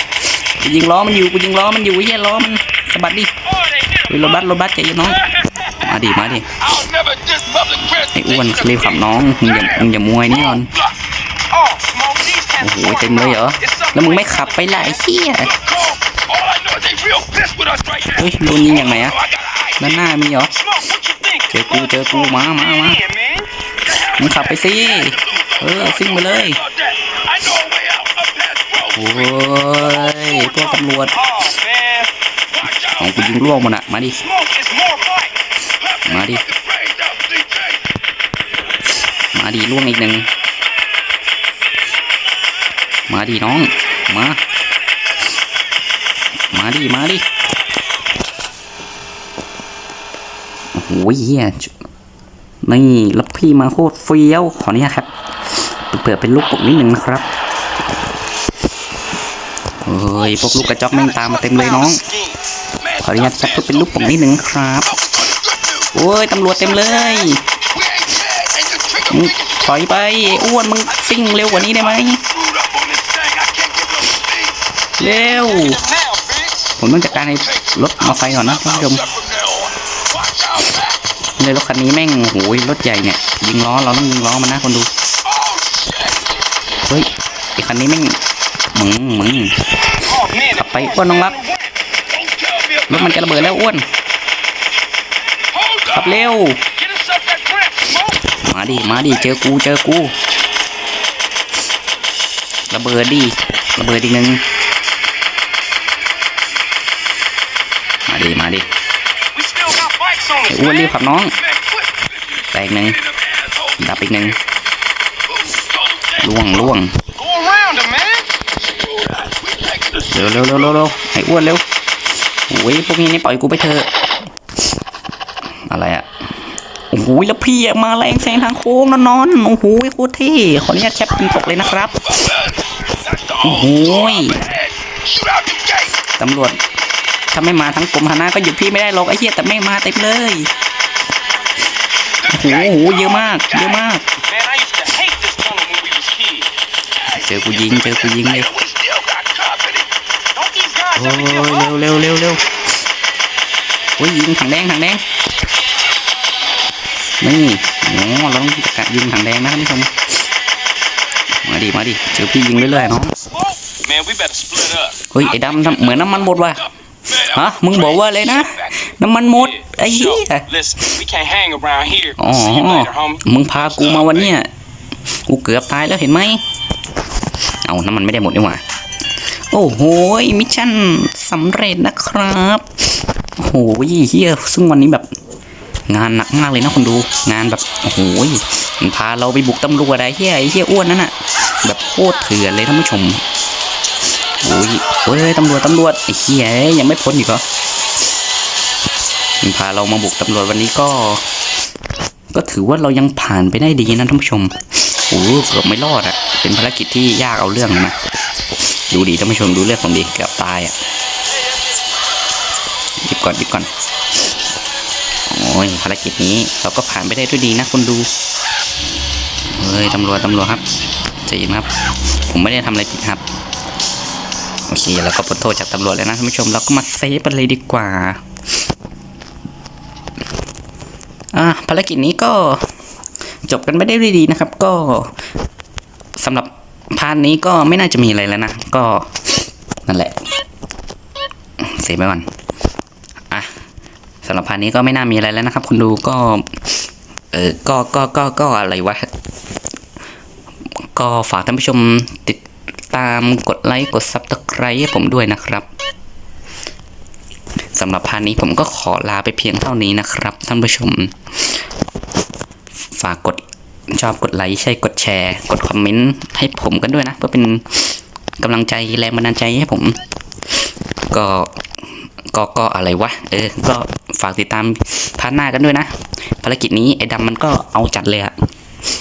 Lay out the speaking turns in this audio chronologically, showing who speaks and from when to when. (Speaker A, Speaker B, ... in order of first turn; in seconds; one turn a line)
Speaker A: 0.6-3.3
Speaker B: 3.6-4.1
Speaker A: 4.1-6.6
Speaker C: 5.1-5.6
Speaker C: 6.5-10.9
Speaker A: 8.1-10.7
Speaker B: 11.5-14.9
Speaker A: 12.6-15.6
Speaker C: 15.4-20.8
Speaker A: 18.1-19.1
Speaker A: 19.8-20.5
Speaker B: 20.7-23.5
Speaker A: 21.5-23.0
Speaker C: 21.9-22.6
Speaker C: 23.9-31.5
Speaker A: 24.0-26.6
Speaker A: 28.9-31.2
Speaker B: 31.3-32.1
Speaker C: 32.5-33.4
Speaker A: 33.0-34.2
Speaker C: 34.2-37.8
Speaker A: 36.0-36.4
Speaker A: 39.3-40.3
Speaker A: 43.1-44.4
Speaker A: 46.5-47.2
Speaker A: 50.7-51.7
Speaker A: 52.6-57.2
Speaker A: 59.8-62.0
Speaker C: 60.1-62.2
Speaker B: 61.6-62.4
Speaker C: 62.8-64.3
Speaker A: 63.0-64.9
Speaker C: 64.8-65.9
Speaker A: 65.9-67.4
Speaker C: 66.6-75.8
Speaker A: 69.1-72.2
Speaker A: 75.0-75.8
Speaker B: 75.4-76.6
Speaker A: 76.8-79.0
Speaker C: 77.1-81.0
Speaker A: 81.4-84.9
Speaker C: 85.2-86.3
Speaker A: 86.8-88.2
Speaker A: 88.7-89.6
Speaker B: 90.1-91.7
Speaker A: 90.5-91.4
Speaker C: 92.0-93.6
Speaker A: 92.9-93.9
Speaker C: 95.5-96.3
Speaker A: 95.9-96.6
Speaker B: 96.8-98.0
Speaker C: 97.0-97.4
Speaker A: 98.3-100.1
Speaker C: 98.9-99.2
Speaker A: 102.7-104.4
Speaker A: 108.0-108.7
Speaker B: 109.3-110.6
Speaker A: 110.5-111.3
Speaker C: 110.6-114.3
Speaker A: 112.5-113.0
Speaker A: 113.8-114.4
Speaker C: 115.3-116.7
Speaker A: 116.2-117.0
Speaker B: 117.2-118.3
Speaker C: 118.5-120.8
Speaker A: 120.1-121.6
Speaker A: 122.5-123.9
Speaker A: 125.7-126.1
Speaker A: 126.9-132.1
Speaker C: 131.2-135.9
Speaker A: 133.4-134.4
Speaker A: 136.2-136.6
Speaker A: 137.3-140.5
Speaker C: 142.2-143.8
Speaker A: 142.2-144.1
Speaker B: 144.2-146.5
Speaker C: 147.0-149.9
Speaker A: 147.1-148.5
Speaker B: 150.3-151.7
Speaker A: 150.9-152.4
Speaker A: 154.0-155.0
Speaker A: 157.2-159.9
Speaker A: 161.4-163.1
Speaker C: 163.2-163.5
Speaker B: 163.7-165.0
Speaker A: 165.1-166.6
Speaker C: 165.2-168.7
Speaker A: 167.2-170.5
Speaker B: 169.5-173.2
Speaker A: 172.2-174.5
Speaker C: 173.6-174.3
Speaker A: 175.1-176.4
Speaker A: 177.6-178.6
Speaker A: 179.5-182.7
Speaker A: 183.4-185.1
Speaker A: 185.9-193.2
Speaker A: 194.4-197.4
Speaker A: 199.4-201.2
Speaker A: 202.3-204.5
Speaker A: 205.1-208.0
Speaker A: 208.9-210.7
Speaker A: 213.0-213.7
Speaker A: 215.3-218.1
Speaker A: 219.5-220.6
Speaker A: 221.2-221.7
Speaker A: 222.3-223.2
Speaker A: 224.7-228.2
Speaker A: 231.3-232.7
Speaker A: 233.5-235.1
Speaker A: 236.2-239.3
Speaker A: 239.8-240.2
Speaker A: 241.6-242.2
Speaker A: 244.2-246.5
Speaker A: 247.3-249.1
Speaker A: 250.8-255.7
Speaker A: 257.7-261.5
Speaker A: 262.9-263.4
Speaker A: 263.9-270.0
Speaker A: 271.1-271.5
Speaker A: 272.3-278.3